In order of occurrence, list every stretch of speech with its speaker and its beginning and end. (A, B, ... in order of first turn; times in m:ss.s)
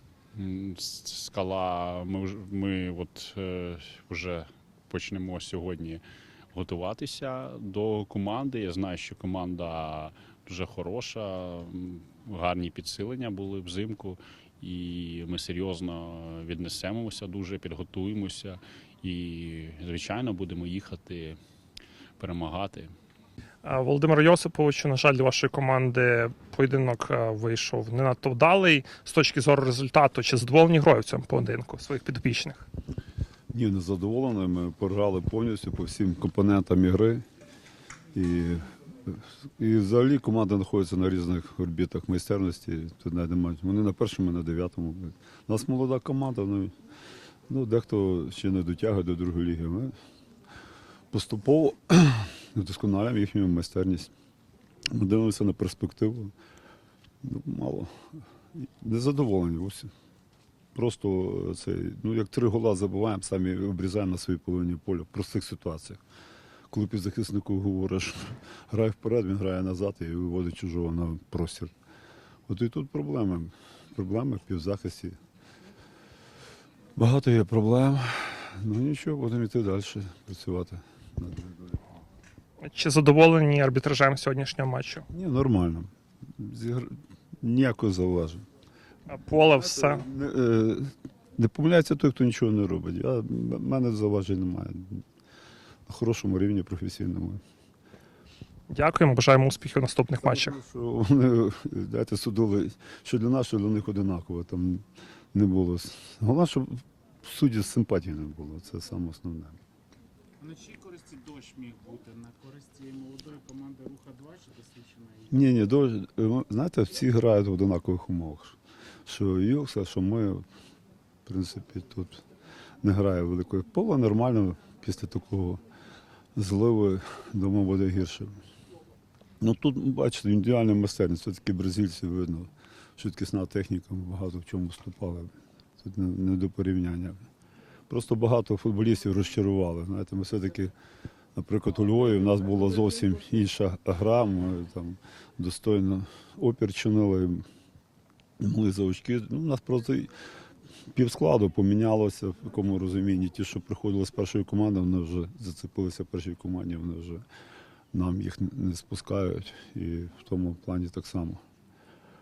0:00.4-0:21.4 A
0:22.2-0:22.9 A
0:23.6-0:32.6 B
0:33.5-0:37.2 C
0:38.1-0:46.7 C
0:47.5-0:49.9 C
0:51.1-0:54.1 C
0:54.9-0:56.3 C
0:57.2-0:57.9 C
0:58.6-0:59.9 C
1:00.8-1:06.0 C
1:06.7-1:11.7 C
1:12.5-1:15.2 C
1:17.0-1:21.8 C
1:22.6-1:25.1 B
1:25.1-1:28.4 C
1:29.1-1:30.0 B
1:29.3-1:35.0 C
1:35.9-1:37.4 C
1:38.7-1:40.6 B
1:40.2-1:49.6 C
1:50.4-1:55.3 D
1:55.3-2:00.4 C
2:01.3-2:02.2 C
2:02.8-2:05.6 C
2:06.4-2:08.4 C
2:09.4-2:17.2 C
2:17.9-2:20.7 C
2:21.4-2:27.4 C
2:28.4-2:30.1 C
2:30.9-2:37.2 C
2:37.9-2:41.4 C